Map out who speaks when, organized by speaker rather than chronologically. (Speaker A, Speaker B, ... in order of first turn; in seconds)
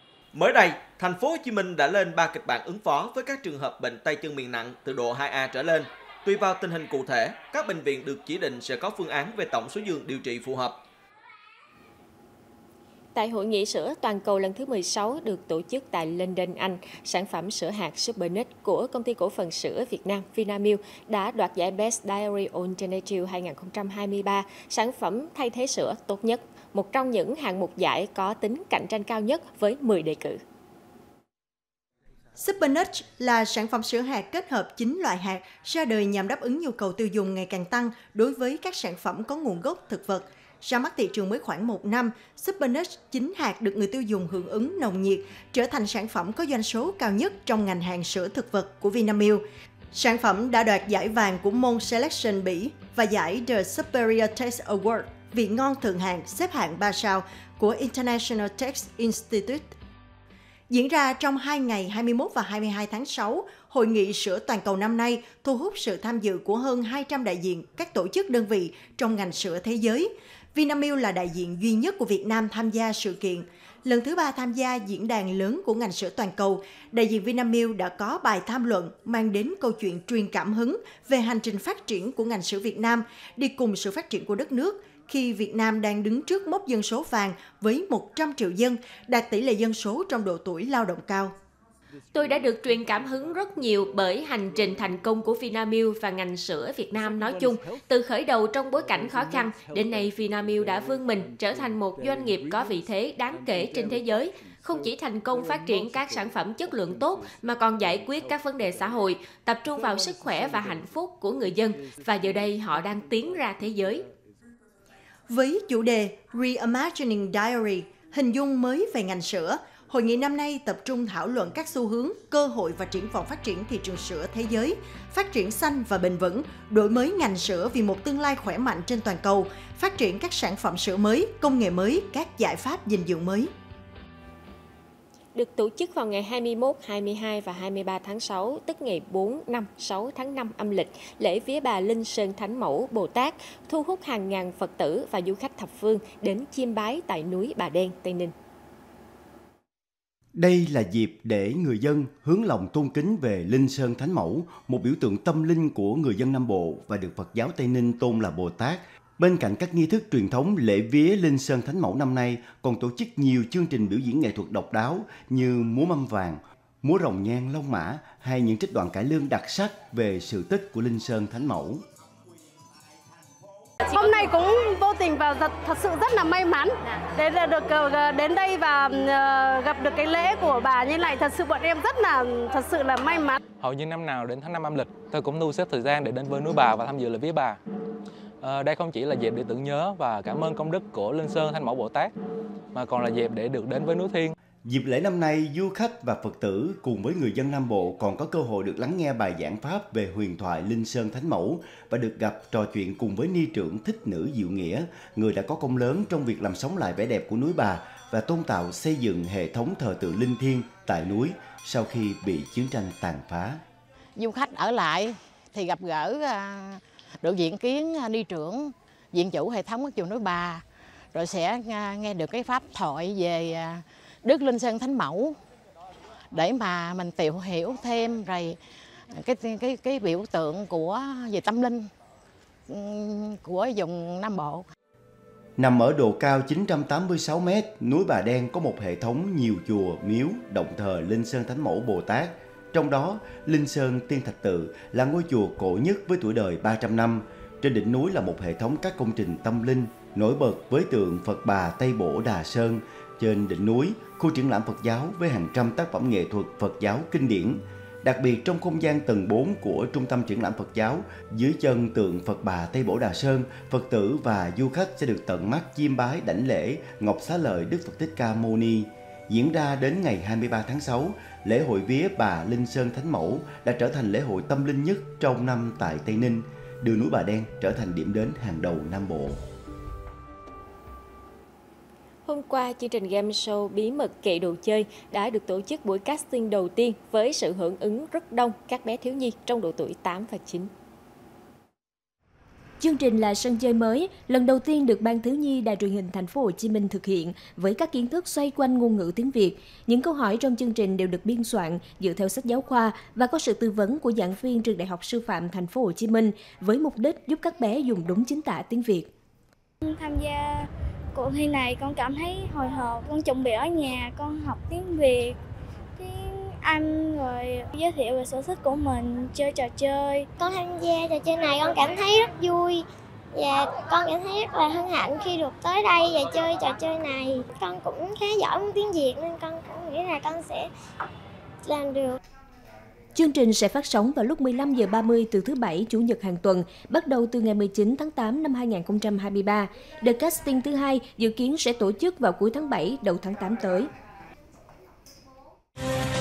Speaker A: 0.3-10.8
Speaker B: 13.1-30.4, 92.2-113.9, 135.3-148.3, 282.2-290.7
Speaker C: 32.4-59.7, 60.7-91.3, 115.3-133.5
Speaker D: 150.3-171.8, 194.6-213.6, 235.6-279.4
Speaker E: 173.9-183.4
Speaker F: 183.6-187.6, 188.4-192.1, 192.8-194.3
Speaker G: 214.2-225.4, 226.3-228.6, 229.1-231.9, 232.7-234.7
Speaker H: 292.8-309.1, 333.1-343.9
Speaker I: 309.8-315.4, 315.9-320.3
Speaker J: 320.4-330.7, 331.6-332.2